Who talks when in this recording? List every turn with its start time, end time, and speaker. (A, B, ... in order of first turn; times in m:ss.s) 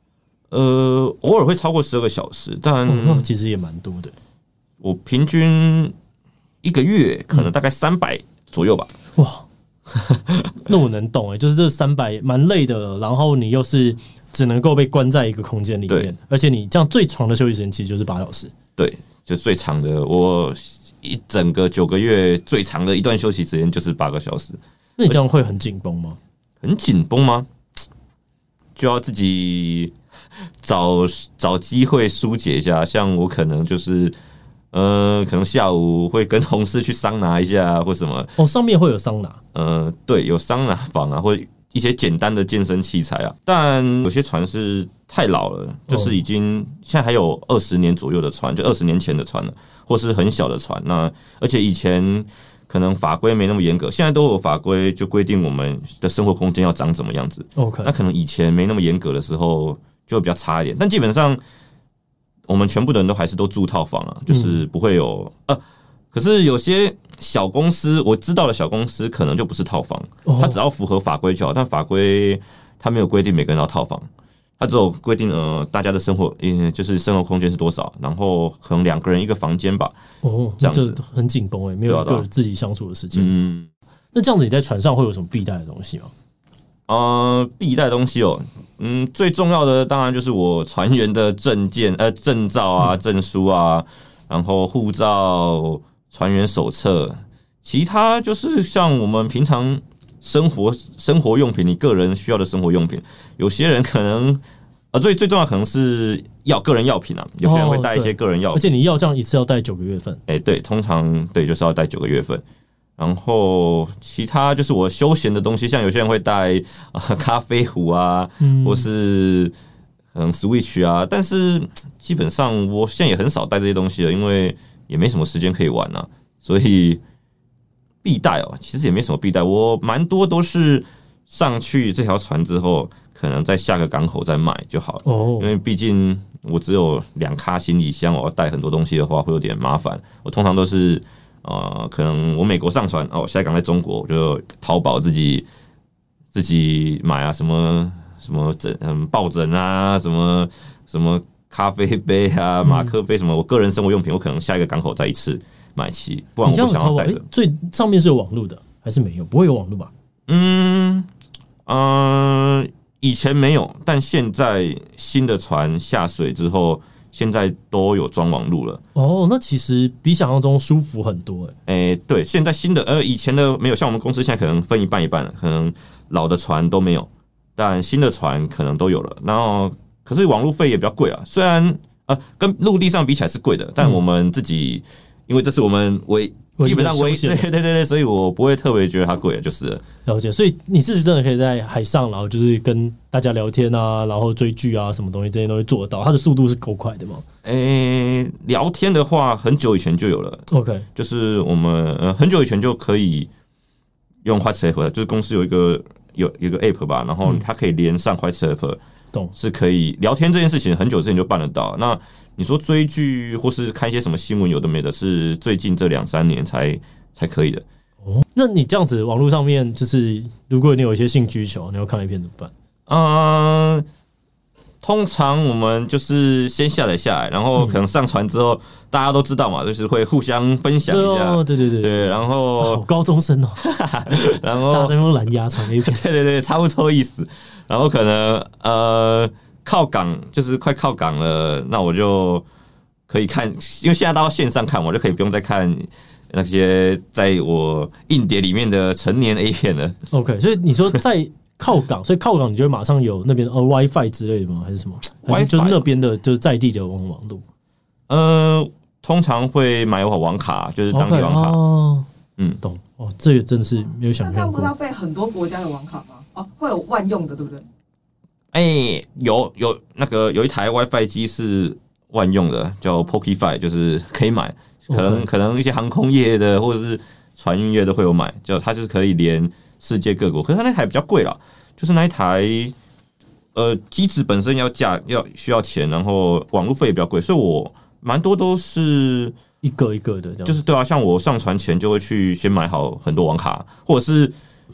0:00.5-0:03.3 A
0:02.8-0:04.1 B
0:04.8-0:05.9 A
0:06.6-0:08.9 A
0:09.2-0:09.4 B
0:10.0-0:10.4 A
0:10.6-0:18.5 B
0:18.8-0:25.2 A
0:25.0-0:26.2 B
0:26.6-0:27.5 A
0:28.8-0:29.9 A
0:30.6-0:34.1 A
0:34.7-0:38.3 A
0:38.4-0:39.4 B
0:39.5-1:01.4 A
0:57.6-0:57.9 B
1:02.5-1:14.1 A
1:04.3-1:04.6 B
1:10.2-1:10.6 B
1:14.6-1:19.9 A
1:20.2-1:23.3 B
1:20.6-1:21.0 A
1:21.9-1:22.3 A
1:23.1-1:23.7 A
1:24.1-1:26.1 B
1:26.9-1:48.6 A
1:47.4-1:50.2 B
1:50.3-1:52.4 A
1:53.0-1:59.5 A
1:58.4-1:58.9 B
2:00.1-2:07.0 A
2:08.0-2:25.4 A
2:15.0-2:15.5 B
2:26.3-2:37.2 A
2:32.6-2:32.9 B
2:36.4-2:39.9 B
2:40.3-2:41.1 A
2:41.6-2:48.8 A
2:48.9-2:51.5 B
2:51.7-3:09.8 A
3:06.6-3:07.4 B
3:10.0-3:17.2 B
3:17.4-3:23.3 A
3:20.5-3:20.8 B
3:24.2-3:28.8 A
3:29.3-3:37.6 A
3:38.0-3:42.5 B
3:42.9-3:43.8 A
3:44.8-3:52.8 A
3:50.9-3:53.6 B
3:53.6-3:54.9 A
3:54.2-3:56.0 B
3:55.8-4:02.4 A
4:03.1-4:10.0 A
4:10.1-4:17.4 B
4:15.2-4:15.8 A
4:18.1-4:21.6 A
4:20.9-4:22.1 B
4:22.6-4:24.7 B
4:24.2-4:27.6 C
4:28.5-4:42.7 A
4:34.9-4:35.3 B
4:43.5-4:49.3 A
4:49.6-4:50.6 B
4:50.4-4:54.3 A